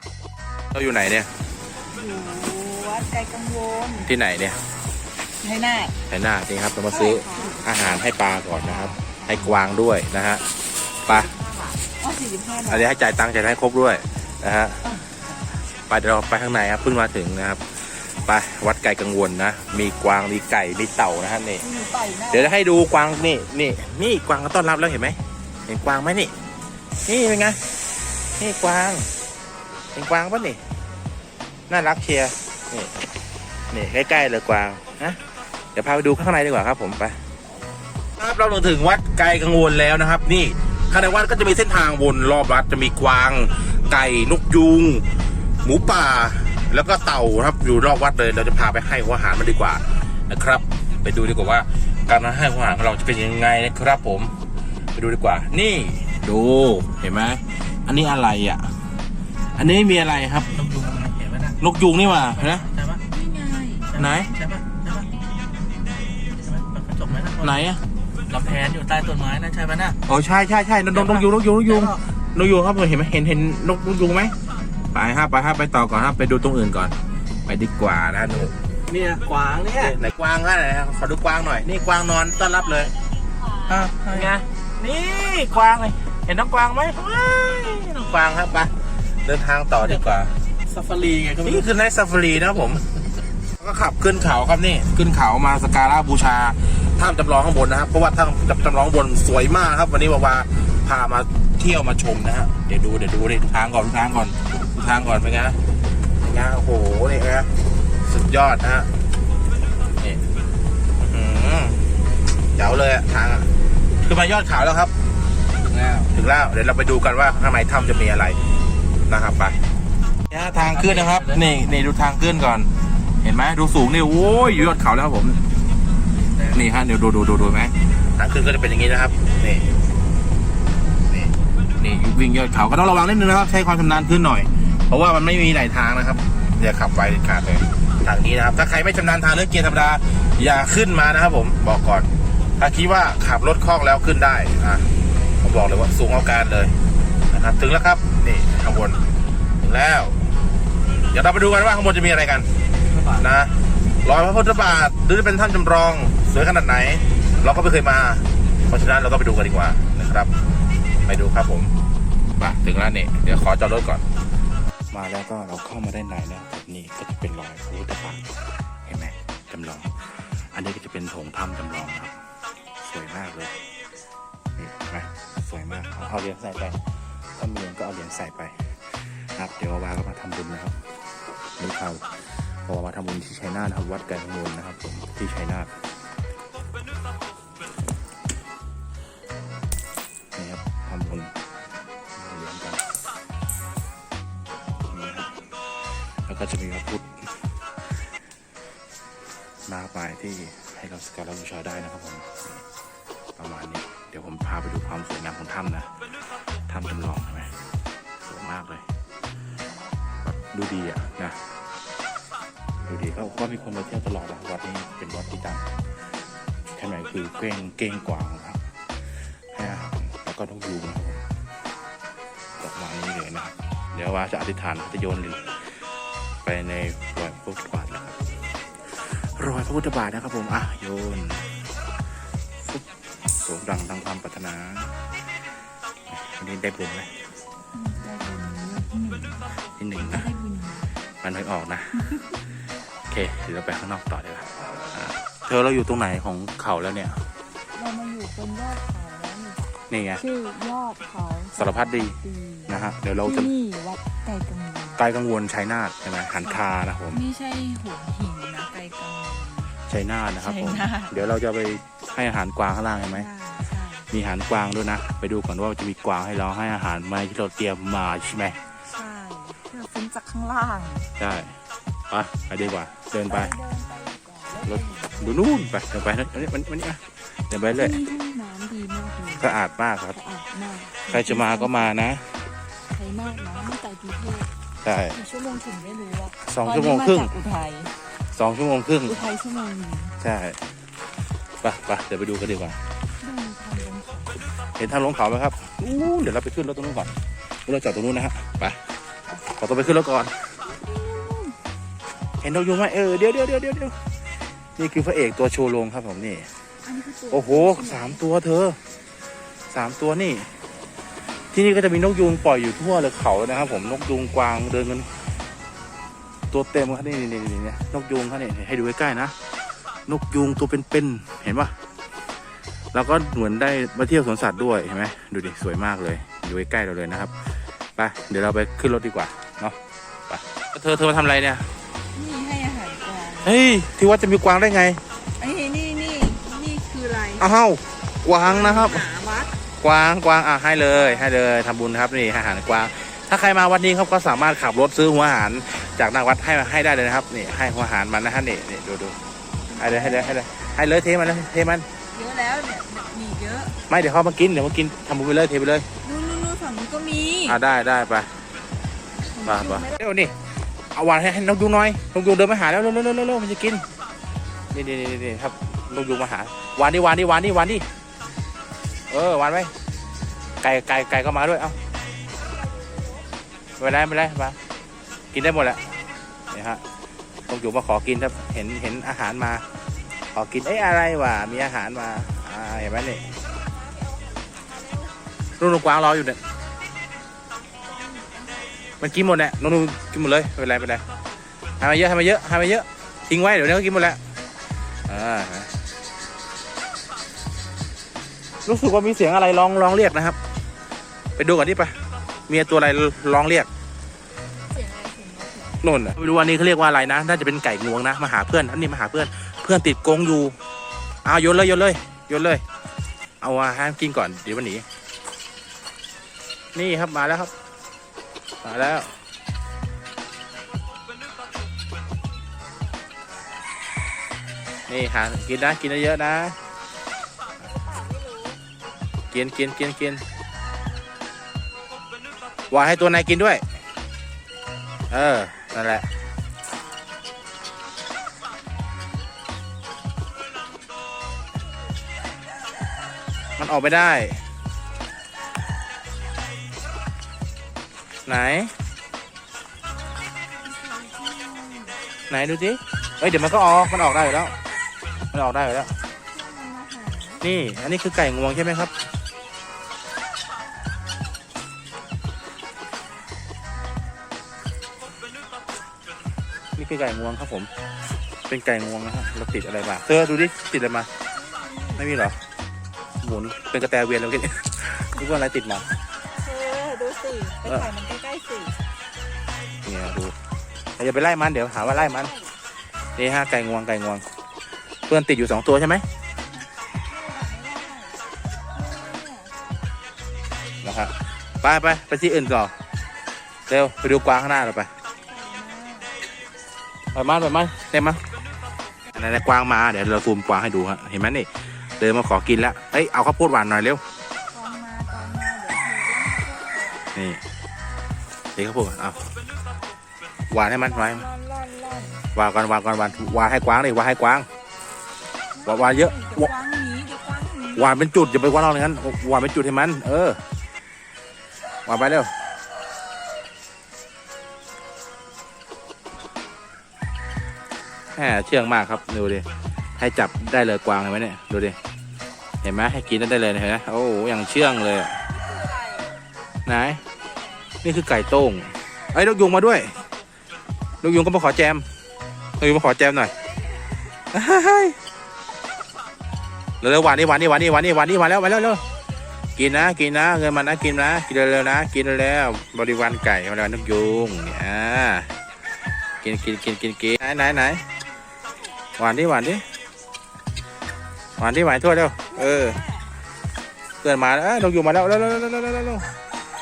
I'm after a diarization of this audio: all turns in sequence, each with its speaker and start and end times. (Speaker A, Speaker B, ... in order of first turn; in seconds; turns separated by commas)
Speaker A: 0.7-1.3, Speaker B: 1.8-4.1, Speaker A: 4.0-4.6, Speaker B: 5.4-6.0, Speaker A: 6.1-10.4, Speaker B: 6.9-7.7, Speaker B: 8.5-9.6, Speaker A: 11.0-11.3, Speaker B: 11.1-12.9, Speaker A: 12.7-14.8, Speaker A: 15.9-21.7, Speaker B: 21.6-22.5, Speaker A: 22.3-26.3, Speaker A: 27.1-27.6, Speaker A: 28.4-29.1, Speaker A: 29.9-30.6, Speaker A: 31.7-32.9, Speaker A: 33.7-35.2, Speaker A: 35.7-37.2, Speaker A: 38.2-45.0, Speaker A: 45.6-54.4, Speaker A: 54.9-58.7, Speaker A: 59.5-60.5, Speaker C: 60.5-61.6, Speaker A: 61.6-62.7, Speaker C: 62.2-63.0, Speaker B: 63.1-63.9, Speaker C: 63.9-65.1, Speaker A: 63.9-64.3, Speaker C: 66.4-67.6, Speaker A: 67.4-67.8, Speaker C: 68.3-70.0, Speaker A: 70.0-74.3, Speaker C: 70.9-72.0, Speaker A: 74.9-76.9, Speaker A: 77.5-78.5, Speaker C: 78.9-80.0, Speaker A: 79.8-82.9, Speaker A: 83.7-88.7, Speaker C: 83.8-84.3, Speaker A: 89.2-90.3, Speaker C: 90.7-91.6, Speaker A: 91.4-92.8, Speaker A: 93.5-105.6, Speaker A: 106.2-107.5, Speaker A: 108.0-109.0, Speaker A: 111.0-111.8, Speaker A: 112.5-114.9, Speaker C: 115.6-116.1, Speaker A: 116.1-118.4, Speaker A: 119.1-119.6, Speaker A: 120.3-122.7, Speaker C: 120.7-121.4, Speaker A: 123.2-125.4, Speaker A: 126.4-129.7, Speaker A: 131.1-144.9, Speaker A: 145.4-146.8, Speaker A: 147.3-149.0, Speaker A: 149.6-150.3, Speaker A: 151.1-152.5, Speaker A: 153.0-160.3, Speaker A: 161.0-161.7, Speaker A: 162.4-164.0, Speaker A: 164.9-172.2, Speaker A: 172.8-173.5, Speaker A: 174.6-176.8, Speaker A: 177.3-180.8, Speaker A: 181.6-185.7, Speaker A: 190.3-191.3, Speaker A: 192.1-192.8, Speaker A: 194.8-195.4, Speaker A: 196.1-197.3, Speaker A: 199.7-202.6, Speaker A: 203.4-205.9, Speaker A: 206.7-207.6, Speaker A: 208.2-208.8, Speaker A: 210.2-211.5, Speaker A: 212.9-215.7, Speaker A: 216.7-218.6, Speaker A: 219.5-221.2, Speaker A: 222.6-225.6, Speaker A: 226.4-228.1, Speaker A: 228.9-231.5, Speaker A: 232.6-235.0, Speaker A: 236.1-237.2, Speaker B: 237.7-240.9, Speaker A: 239.8-240.3, Speaker A: 241.2-242.3, Speaker A: 243.1-247.2, Speaker B: 247.7-255.0, Speaker A: 249.9-250.2, Speaker A: 251.6-252.2, Speaker A: 252.7-253.5, Speaker A: 255.0-257.2, Speaker B: 256.4-259.8, Speaker A: 259.9-263.3, Speaker B: 260.4-261.1, Speaker B: 263.1-264.1, Speaker A: 264.1-268.6, Speaker B: 268.9-271.1, Speaker A: 271.2-271.6, Speaker A: 272.1-273.5, Speaker B: 273.2-275.4, Speaker A: 274.7-277.9, Speaker B: 277.7-279.6, Speaker A: 279.4-280.2, Speaker B: 280.1-281.9, Speaker A: 281.0-282.4, Speaker B: 282.9-284.5, Speaker A: 284.8-285.2, Speaker B: 285.1-288.0, Speaker A: 286.4-287.4, Speaker A: 288.3-289.2, Speaker B: 289.1-290.2, Speaker A: 290.2-290.6, Speaker A: 291.6-292.8, Speaker B: 293.2-294.4, Speaker A: 294.8-297.1, Speaker A: 297.6-298.8, Speaker A: 299.5-300.5, Speaker B: 300.7-301.6, Speaker A: 302.4-303.9, Speaker A: 304.8-306.5, Speaker B: 306.8-308.2, Speaker A: 307.3-308.8, Speaker A: 309.7-310.5, Speaker A: 311.5-315.1, Speaker A: 316.5-319.3, Speaker A: 320.1-321.7, Speaker A: 322.9-327.3, Speaker A: 327.9-329.8, Speaker A: 330.3-331.7, Speaker B: 332.1-333.6, Speaker A: 333.4-335.0, Speaker B: 335.4-337.5, Speaker A: 337.4-339.1, Speaker B: 338.4-339.6, Speaker A: 339.8-349.1, Speaker B: 340.9-341.3, Speaker B: 349.7-350.4, Speaker A: 349.8-351.9, Speaker B: 352.1-353.8, Speaker A: 353.9-355.9, Speaker B: 356.0-357.6, Speaker A: 357.4-358.3, Speaker B: 359.3-360.0, Speaker A: 359.4-360.3, Speaker A: 360.9-363.8, Speaker A: 364.7-367.9, Speaker A: 369.1-369.7, Speaker A: 370.6-371.8, Speaker B: 372.4-373.2, Speaker A: 373.8-374.6, Speaker A: 375.3-376.0, Speaker A: 376.5-376.8, Speaker A: 377.5-379.6, Speaker A: 380.3-383.3, Speaker B: 383.7-385.2, Speaker A: 385.6-386.4, Speaker B: 387.8-388.9, Speaker A: 389.0-391.0, Speaker A: 391.8-394.2, Speaker A: 395.1-395.7, Speaker A: 398.6-400.4, Speaker A: 401.4-401.9, Speaker A: 402.5-403.7, Speaker B: 404.7-405.8, Speaker A: 405.8-410.5, Speaker A: 411.2-412.6, Speaker A: 413.4-414.9, Speaker A: 416.7-417.5, Speaker A: 418.6-419.2, Speaker A: 424.9-426.6, Speaker B: 427.8-428.6, Speaker A: 429.3-430.2, Speaker A: 432.7-433.6, Speaker A: 435.1-436.1, Speaker A: 443.6-444.4, Speaker A: 448.2-448.7, Speaker B: 450.6-452.0, Speaker A: 452.3-454.5, Speaker A: 455.3-455.9, Speaker B: 456.3-457.4, Speaker A: 457.4-458.9, Speaker A: 466.8-467.7, Speaker A: 468.5-471.1, Speaker B: 471.3-472.0, Speaker A: 472.0-472.4, Speaker A: 473.2-475.9, Speaker B: 476.3-478.8, Speaker A: 479.8-480.3, Speaker A: 481.0-482.3, Speaker B: 481.8-482.5, Speaker A: 483.1-484.2, Speaker A: 485.1-486.1, Speaker B: 487.1-489.7, Speaker A: 490.8-492.7, Speaker A: 493.7-494.9, Speaker B: 495.3-496.1, Speaker A: 497.1-498.2, Speaker A: 499.1-504.0, Speaker B: 504.5-507.0, Speaker A: 507.1-507.4, Speaker A: 508.6-509.2, Speaker A: 510.5-511.3, Speaker B: 510.7-512.2, Speaker A: 512.3-514.5, Speaker B: 515.5-517.9, Speaker A: 515.6-516.5, Speaker A: 517.8-520.4, Speaker A: 521.9-522.3, Speaker A: 528.1-531.8, Speaker A: 532.6-535.3, Speaker B: 535.3-536.1, Speaker A: 536.6-537.0, Speaker A: 537.8-540.0, Speaker A: 541.0-541.8, Speaker A: 542.6-543.4, Speaker A: 544.3-545.0, Speaker A: 546.8-548.8, Speaker A: 549.5-555.3, Speaker A: 556.2-557.8, Speaker A: 559.0-559.6, Speaker A: 561.4-562.8, Speaker B: 562.3-563.0, Speaker A: 564.0-566.1